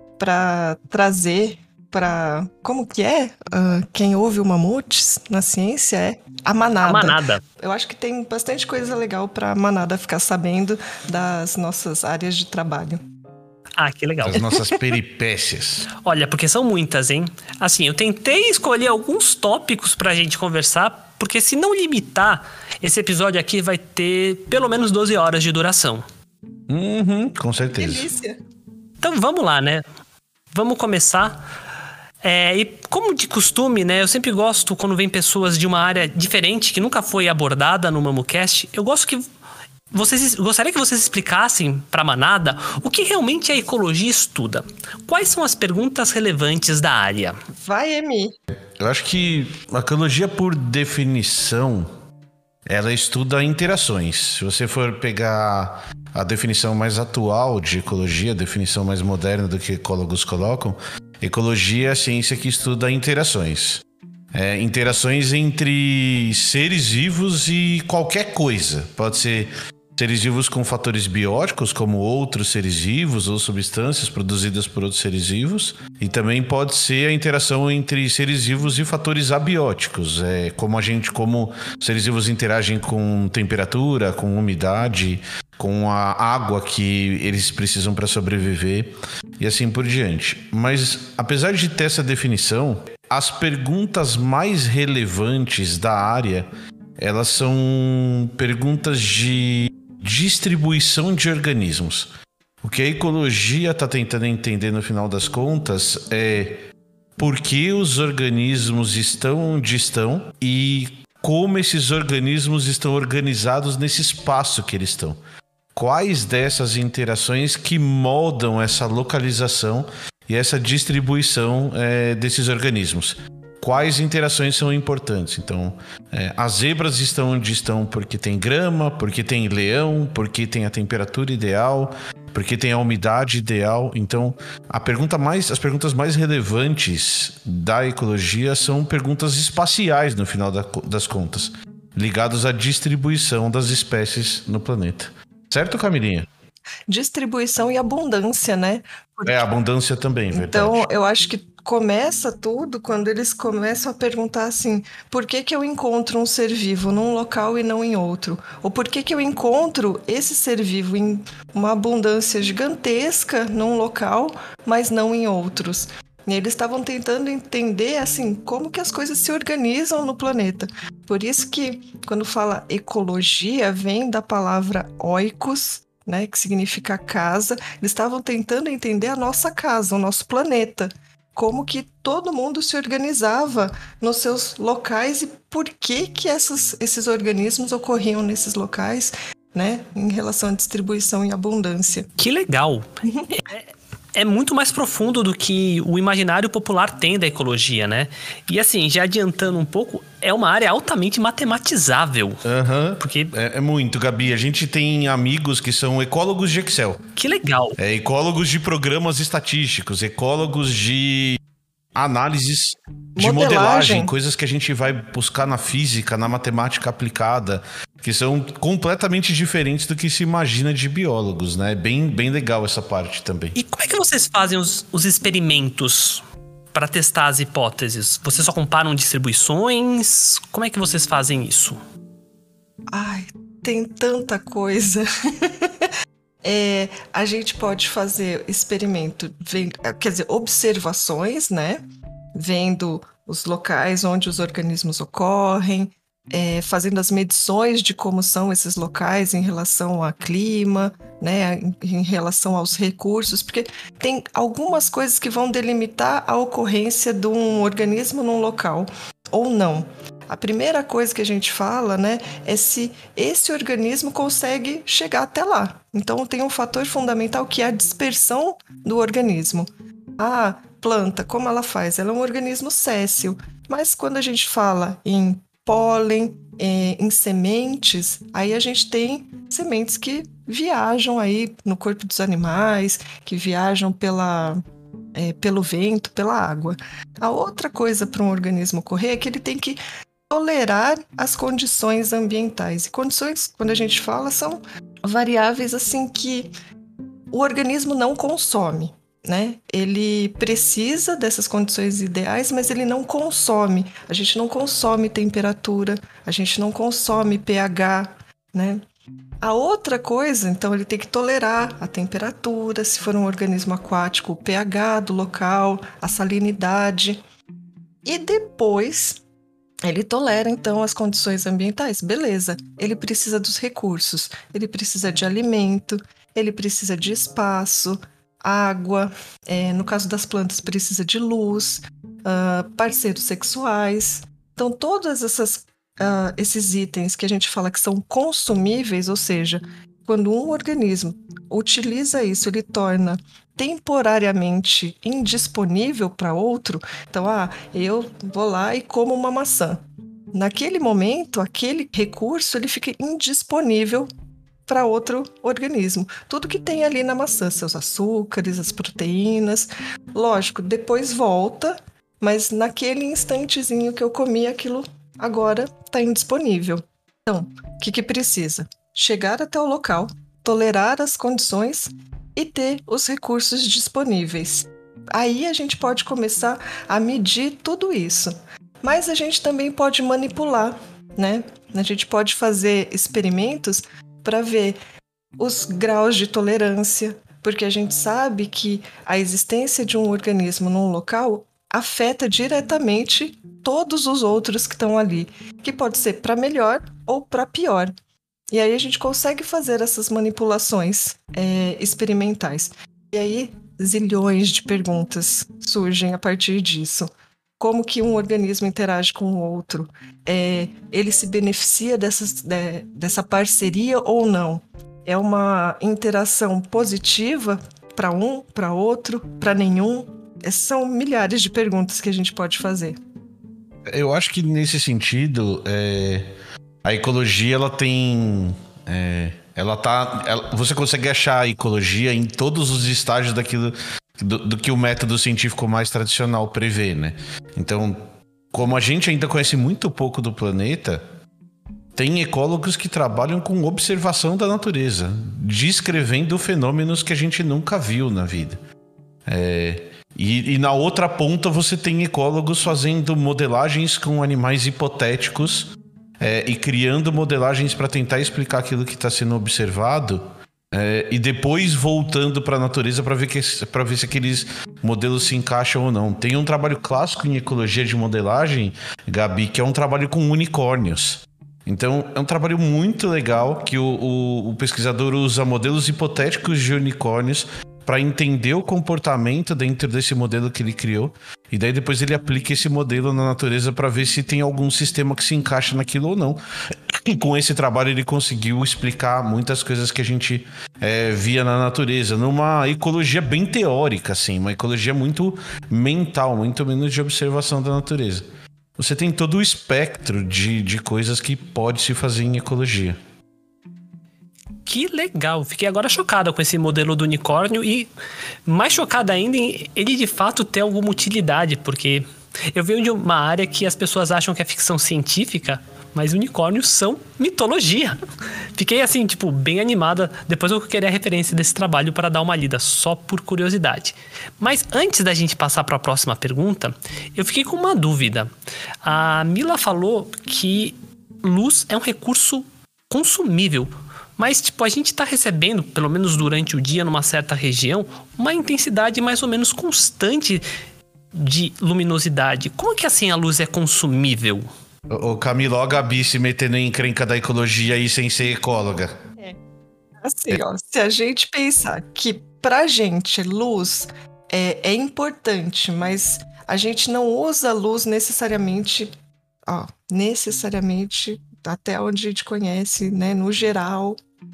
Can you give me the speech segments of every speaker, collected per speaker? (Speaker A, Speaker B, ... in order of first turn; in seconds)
Speaker A: 0.2-13.0, 27.8-28.4, 47.5-48.3, 146.9-149.5, 150.3-192.1, 213.2-214.1, 232.9-235.9, 236.4-241.8, 242.3-284.6, 285.1-289.8, 290.3-296.5, 297.3-308.8, 309.4-317.2, 318.1-319.2, 319.8-354.1, 354.7-384.8, 385.4-397.9, 398.5-423.0, 550.0-558.9, 559.5-564.0
Speaker B: 6.8-7.4, 13.8-14.5, 16.0-26.1, 29.0-29.8, 30.5-31.4, 32.2-39.2, 39.9-47.4, 192.2-202.4, 203.0-203.3, 207.2-207.8, 223.6-226.2, 226.7-231.8, 504.7-507.9, 508.5-518.0, 518.5-528.3, 528.8-540.5, 541.1-544.5
Speaker C: 14.2-15.9, 26.7-28.1, 48.8-51.9, 52.7-102.1, 102.6-106.6, 107.2-115.2, 115.8-146.3, 149.2-150.9, 202.4-207.0, 207.8-211.4, 212.0-223.6, 423.9-426.3, 426.8-441.0, 442.0-448.6, 449.3-498.3, 498.8-503.0, 544.9-548.9